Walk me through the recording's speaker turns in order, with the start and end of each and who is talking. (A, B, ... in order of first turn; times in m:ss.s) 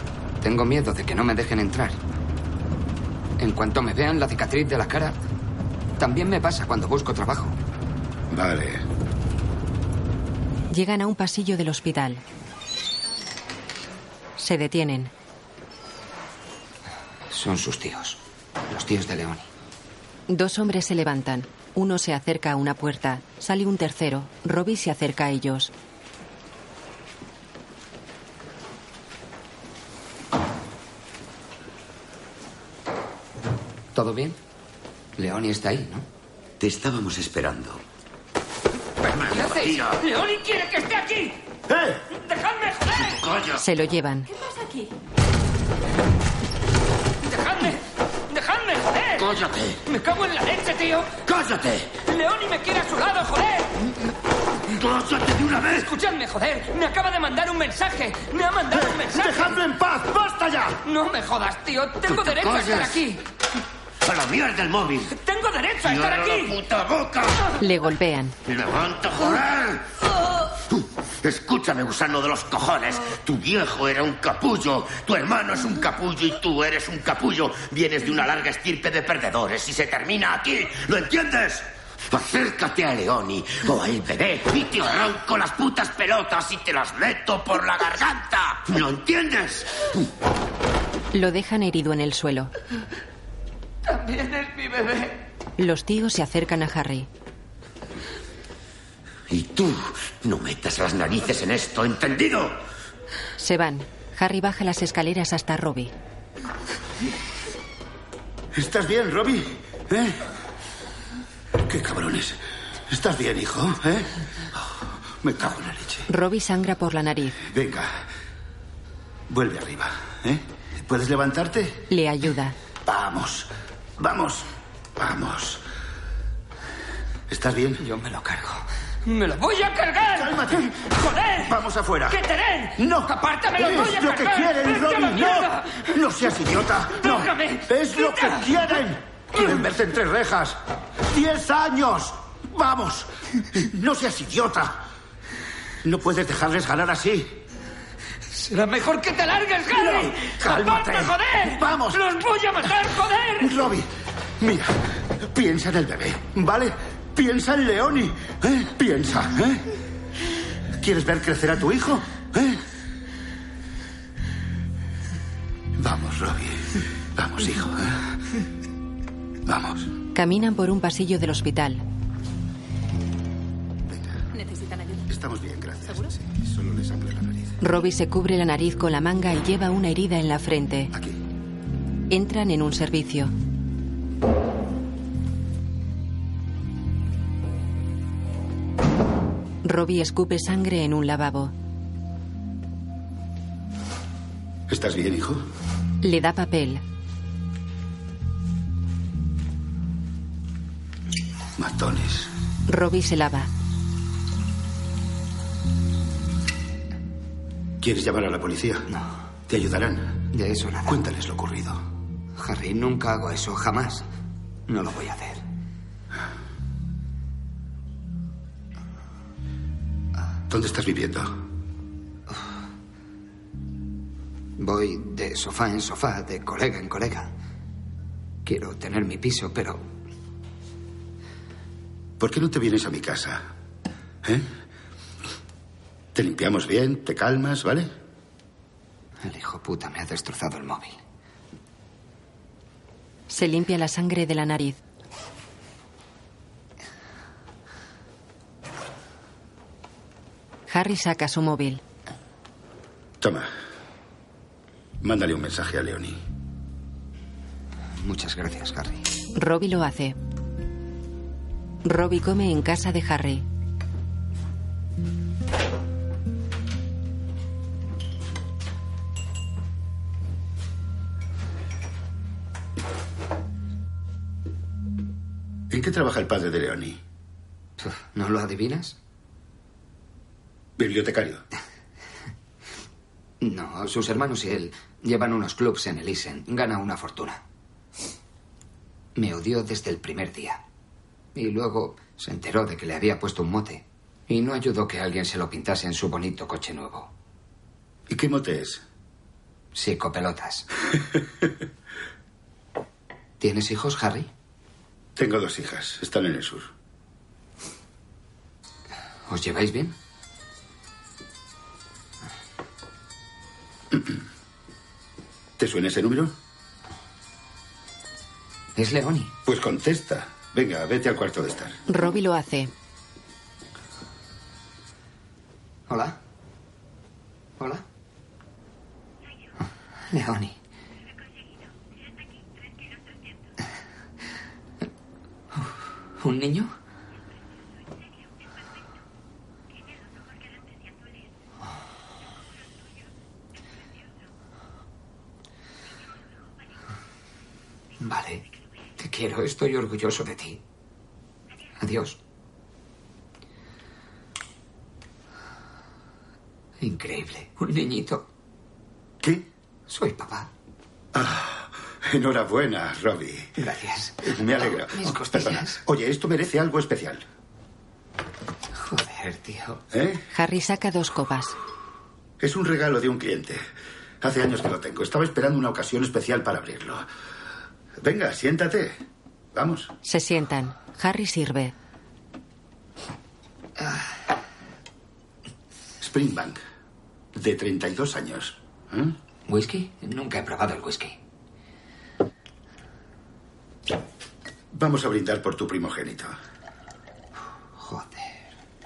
0:00.4-0:02.0 A
0:03.4-0:05.2 A
0:06.0-0:07.6 A
0:08.3-0:08.8 B
0:10.7-0:12.2 C
0:14.4-0:15.1 C
0:17.3-0:19.5 A
0:20.3-0:25.7 C
0:34.0-0:34.4 A
0:35.2-0:36.1 A
0:36.6-0:37.8 D
0:39.1-0:40.0 D
0:40.0-0:41.4 E
0:41.7-0:42.0 B
0:42.1-0:43.2 E
0:43.1-0:43.6 D
0:43.6-0:44.3 C
0:47.2-0:49.3 E
0:49.2-0:49.8 D
0:49.9-0:51.1 E
0:51.2-0:52.0 D
0:52.0-0:53.7 E
0:54.7-0:55.8 D
0:55.7-0:59.6 E
0:58.7-1:00.8 B
1:00.8-1:03.2 E
1:02.1-1:03.0 D
1:04.0-1:05.1 D
1:05.1-1:06.6 E
1:05.8-1:07.4 D
1:07.6-1:08.4 C
1:08.4-1:09.9 D
1:10.7-1:30.0 D
1:31.1-1:32.5 C
1:35.6-1:37.1 C
1:39.3-1:42.6 D
1:43.4-1:45.9 C
1:48.5-1:50.2 B
1:51.6-1:56.1 B
1:56.1-1:57.4 C
1:57.4-1:58.0 B
1:59.3-2:01.9 B
2:01.9-2:02.6 C
2:02.8-2:05.6 B
2:07.3-2:07.8 B
2:07.8-2:08.6 A
2:09.1-2:11.5 E
2:10.2-2:10.7 B
2:11.4-2:12.2 B
2:12.1-2:15.8 E
2:12.8-2:20.6 B
2:17.0-2:18.5 E
2:21.1-2:24.8 B
2:25.8-2:27.4 B
2:29.0-2:33.5 E
2:29.7-2:32.0 B
2:33.4-2:33.9 B
2:34.4-2:39.7 B
2:40.8-2:42.6 B
2:45.8-2:48.1 B
2:49.5-2:49.9 B
2:50.1-2:51.8 C
2:53.9-2:54.3 B
2:55.1-2:57.6 B
2:57.6-3:00.9 C
3:00.9-3:01.2 B
3:02.1-3:03.3 C
3:09.6-3:11.5 C
3:14.7-3:15.4 B
3:16.0-3:16.8 C
3:21.6-3:22.3 B
3:22.7-3:23.5 C
3:27.8-3:28.9 B
3:29.5-3:30.3 B
3:30.3-3:31.0 A
3:30.9-3:31.8 B
3:32.4-3:34.0 A
3:34.7-3:35.4 A
3:40.5-3:41.4 B
3:44.6-3:47.3 A
3:48.4-3:49.8 A
3:52.2-3:53.5 B
3:56.2-3:57.9 B
3:59.2-4:01.0 A
4:03.3-4:04.8 C
4:10.7-4:11.8 C
4:13.2-4:13.5 B
4:15.0-4:16.2 B
4:18.0-4:19.0 A
4:19.4-4:20.2 C
4:21.8-4:23.4 C
4:35.7-4:37.0 B
4:37.8-4:39.0 A
4:40.8-4:41.4 B
4:43.4-4:47.4 A
4:49.2-4:50.6 A
4:51.4-4:57.1 A
4:58.1-4:58.8 B
4:59.7-5:00.7 A
5:03.4-5:04.3 A
5:05.2-5:06.7 B
5:09.3-5:10.0 A
5:15.6-5:16.4 B
5:18.8-5:19.3 A
5:19.4-5:21.8 B
5:21.9-5:22.7 C
5:25.9-5:26.2 A
5:30.1-5:30.6 A
5:35.5-5:36.7 A
5:48.0-5:48.4 A
5:49.0-5:50.6 A
5:51.8-5:52.2 A
5:56.8-5:58.3 A
5:59.2-5:59.5 B
5:59.9-6:00.5 A
6:01.1-6:03.6 B
6:03.6-6:05.8 A
6:04.2-6:07.2 B
6:08.8-6:09.8 A
6:09.9-6:10.2 B
6:10.3-6:11.6 C
6:12.4-6:13.6 B
6:14.2-6:17.1 B
6:18.0-6:19.0 B
6:19.5-6:19.9 B
6:20.0-6:21.7 C
6:26.0-6:26.6 B
6:27.4-6:29.2 B
6:29.5-6:31.2 A
6:34.7-6:36.4 B
6:37.8-6:38.4 A